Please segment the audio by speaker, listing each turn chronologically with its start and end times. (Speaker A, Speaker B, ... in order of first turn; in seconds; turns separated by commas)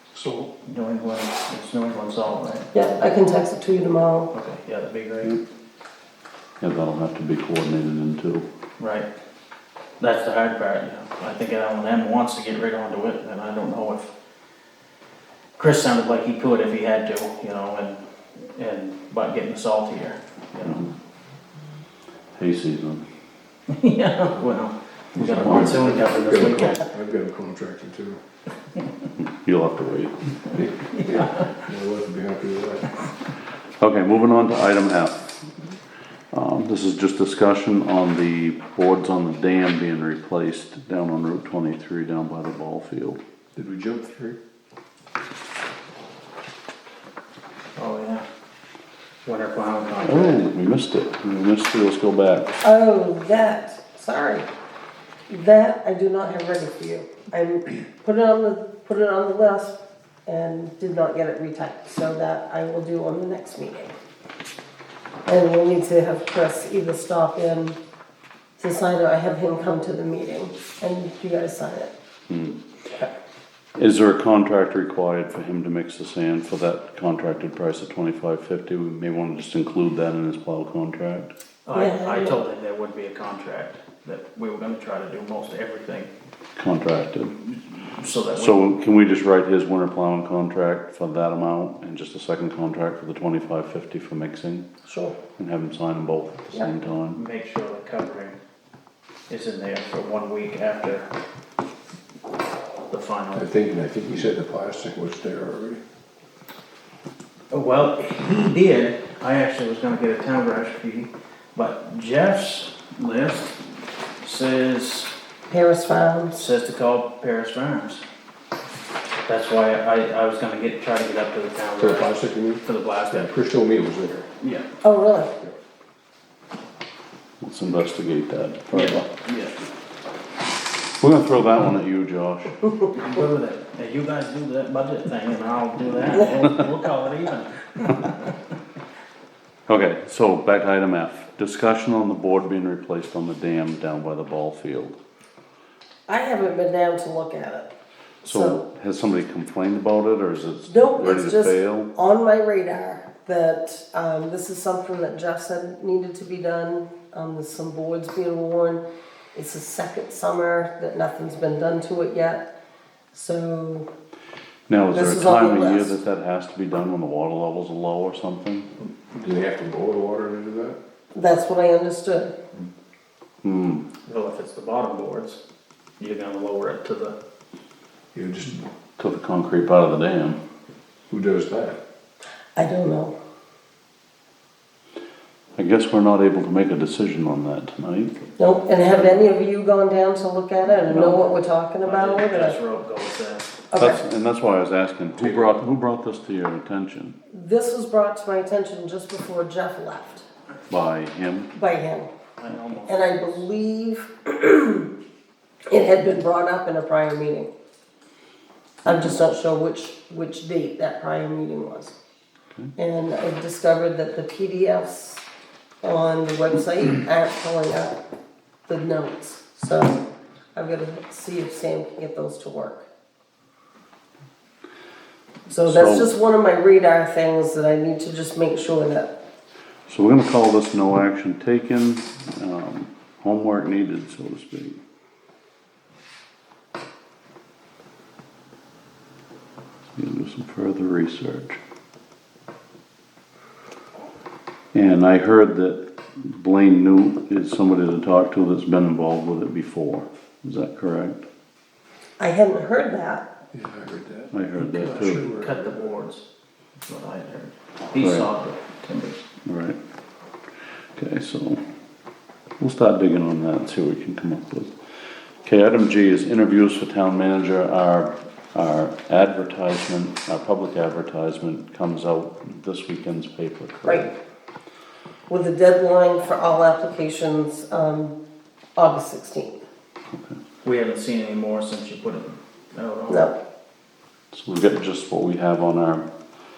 Speaker A: 0.1-2.7, Speaker B: 2.7-4.3, Speaker A: 4.3-5.4, Speaker C: 6.6-8.5, Speaker A: 8.8-9.1, Speaker A: 10.0-14.1, Speaker A: 15.6-20.8, Speaker C: 20.6-20.9, Speaker C: 22.4-23.1, Speaker A: 23.7-26.9, Speaker D: 25.2-28.2, Speaker C: 25.4-25.7, Speaker C: 29.2-30.2, Speaker D: 30.6-32.9, Speaker A: 30.9-31.5, Speaker C: 33.8-35.2, Speaker C: 36.3-43.2, Speaker D: 43.5-44.4, Speaker A: 47.8-48.2, Speaker A: 49.2-50.5, Speaker C: 50.0-52.5, Speaker B: 52.6-54.5, Speaker B: 55.3-63.9, Speaker B: 65.3-67.8, Speaker B: 68.6-71.9, Speaker C: 72.3-72.6, Speaker C: 73.8-81.3, Speaker A: 81.7-86.1, Speaker B: 81.7-82.4, Speaker C: 86.6-87.4, Speaker A: 87.5-88.7, Speaker C: 88.4-94.7, Speaker B: 94.8-95.2, Speaker C: 95.4-97.2, Speaker A: 97.1-98.4, Speaker A: 99.3-101.2, Speaker A: 102.9-103.5, Speaker D: 103.3-105.8, Speaker A: 107.5-113.6, Speaker A: 114.2-115.1, Speaker B: 115.5-116.5, Speaker A: 116.3-118.0, Speaker A: 119.3-123.3, Speaker D: 121.8-124.3, Speaker A: 124.4-124.7, Speaker B: 124.8-125.3, Speaker C: 127.4-129.1, Speaker A: 128.7-129.6, Speaker C: 131.0-132.7, Speaker A: 132.9-138.3, Speaker C: 139.7-145.0, Speaker B: 146.1-147.7, Speaker B: 148.2-148.7, Speaker C: 148.2-151.9, Speaker B: 150.7-158.8, Speaker B: 159.3-162.5, Speaker B: 163.1-163.9, Speaker C: 164.7-168.7, Speaker B: 164.9-166.0, Speaker D: 168.8-170.8, Speaker B: 171.1-172.3, Speaker C: 173.4-173.9, Speaker A: 174.1-175.4, Speaker A: 176.0-177.2, Speaker D: 178.1-178.7, Speaker C: 179.0-180.4, Speaker D: 181.1-181.8, Speaker B: 182.6-183.1, Speaker C: 185.6-188.3, Speaker B: 188.4-192.6, Speaker C: 188.8-189.3, Speaker C: 190.8-191.3, Speaker A: 191.8-193.5, Speaker B: 193.7-194.0, Speaker C: 193.8-197.2, Speaker D: 195.2-195.5, Speaker B: 197.3-200.3, Speaker C: 200.7-201.5, Speaker B: 201.6-202.1, Speaker A: 202.4-203.4, Speaker B: 202.9-204.9, Speaker B: 205.7-207.5, Speaker B: 208.8-211.9, Speaker B: 212.8-215.2, Speaker B: 215.8-218.0, Speaker B: 218.7-220.0, Speaker B: 220.6-222.8, Speaker B: 225.5-229.1, Speaker C: 225.6-226.1, Speaker C: 229.9-234.8, Speaker C: 239.9-241.6, Speaker C: 244.7-251.2, Speaker B: 252.2-253.3, Speaker D: 253.5-255.9, Speaker C: 254.3-255.3, Speaker A: 254.6-256.2, Speaker A: 256.9-259.2, Speaker C: 258.0-258.3, Speaker C: 259.4-259.8, Speaker C: 260.9-261.6, Speaker C: 262.6-264.7, Speaker C: 265.4-274.1, Speaker B: 275.3-278.2, Speaker B: 278.8-279.6, Speaker C: 280.1-280.4, Speaker A: 280.6-283.3, Speaker B: 283.1-283.4, Speaker C: 284.3-286.1